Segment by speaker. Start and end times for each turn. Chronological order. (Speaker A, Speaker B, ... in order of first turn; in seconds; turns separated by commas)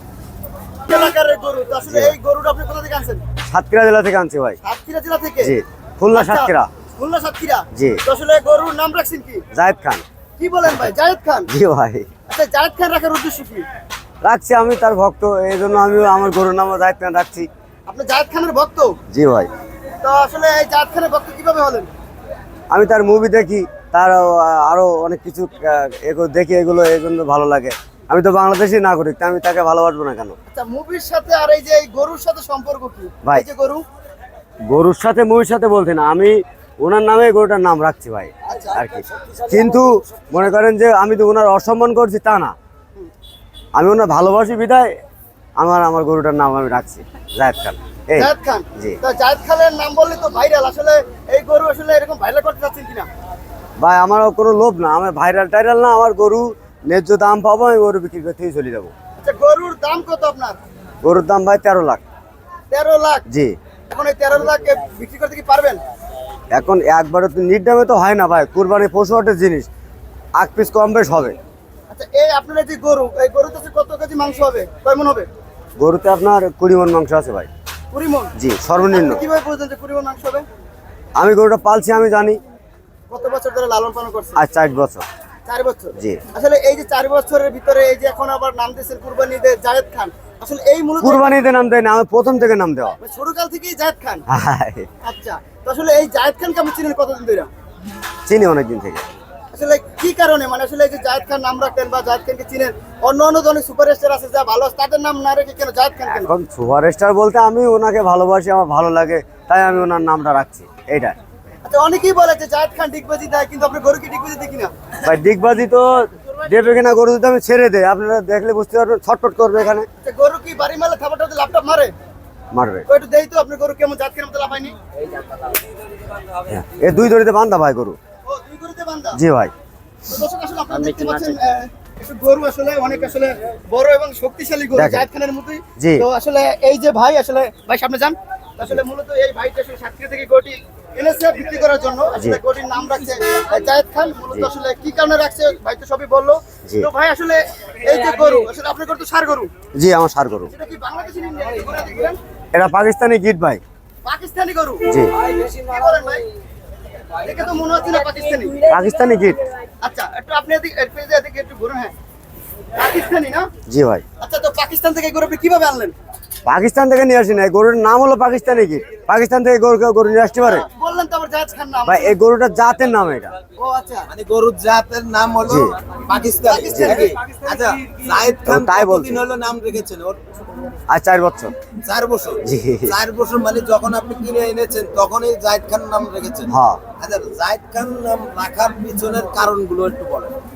Speaker A: 0.9-3.2, Speaker B: 1.9-2.1, Speaker B: 3.5-4.6, Speaker A: 4.6-5.5, Speaker B: 5.4-6.7, Speaker A: 6.1-9.4, Speaker B: 7.7-8.0, Speaker B: 9.5-10.0, Speaker A: 10.4-11.5, Speaker B: 10.7-10.9, Speaker B: 11.5-12.1, Speaker A: 12.3-13.6, Speaker B: 14.2-17.5, Speaker A: 17.9-18.9, Speaker B: 19.1-19.5, Speaker A: 20.0-21.9, Speaker B: 22.7-30.4, Speaker A: 30.5-33.8, Speaker B: 34.7-42.5, Speaker C: 38.4-40.3, Speaker B: 43.8-44.9, Speaker B: 45.6-49.0, Speaker A: 48.1-53.1, Speaker B: 53.8-58.9, Speaker A: 59.2-60.6, Speaker B: 61.0-62.0, Speaker A: 62.7-63.2, Speaker B: 63.3-63.5, Speaker A: 63.9-65.8, Speaker B: 66.5-69.7, Speaker B: 70.4-71.4, Speaker A: 71.9-75.3, Speaker B: 75.8-77.5, Speaker A: 77.9-78.3, Speaker B: 78.3-79.2, Speaker A: 78.9-80.4, Speaker B: 81.2-82.4, Speaker A: 83.1-84.4, Speaker B: 84.3-85.0, Speaker A: 85.5-91.3, Speaker B: 86.0-86.2, Speaker B: 91.0-93.0, Speaker A: 93.0-94.2, Speaker B: 94.3-94.9, Speaker A: 95.0-97.5, Speaker B: 98.2-99.0, Speaker A: 99.5-106.3, Speaker B: 106.1-111.1, Speaker A: 111.6-114.7, Speaker B: 115.0-119.9, Speaker A: 120.0-121.9, Speaker B: 122.5-122.8, Speaker A: 122.9-124.7, Speaker C: 125.1-125.6, Speaker B: 126.5-128.0, Speaker A: 128.2-129.2, Speaker B: 129.1-129.5, Speaker A: 130.1-149.5, Speaker C: 130.8-131.3, Speaker B: 134.7-135.1, Speaker B: 135.8-136.0, Speaker B: 149.7-150.5, Speaker A: 150.5-152.2, Speaker B: 152.5-153.6, Speaker A: 154.0-156.2, Speaker B: 154.9-155.1, Speaker A: 157.2-158.6, Speaker B: 158.7-159.4, Speaker A: 159.8-161.9, Speaker A: 162.8-163.5, Speaker B: 163.7-164.0, Speaker A: 164.2-165.9, Speaker B: 166.4-170.7, Speaker A: 170.4-172.1, Speaker B: 171.8-173.3, Speaker A: 173.6-174.1, Speaker C: 174.1-180.2, Speaker B: 175.4-175.7, Speaker A: 176.4-177.3, Speaker B: 176.7-177.1, Speaker B: 178.4-179.2, Speaker B: 180.9-181.5, Speaker C: 181.8-190.3, Speaker B: 182.4-182.9, Speaker B: 186.5-186.8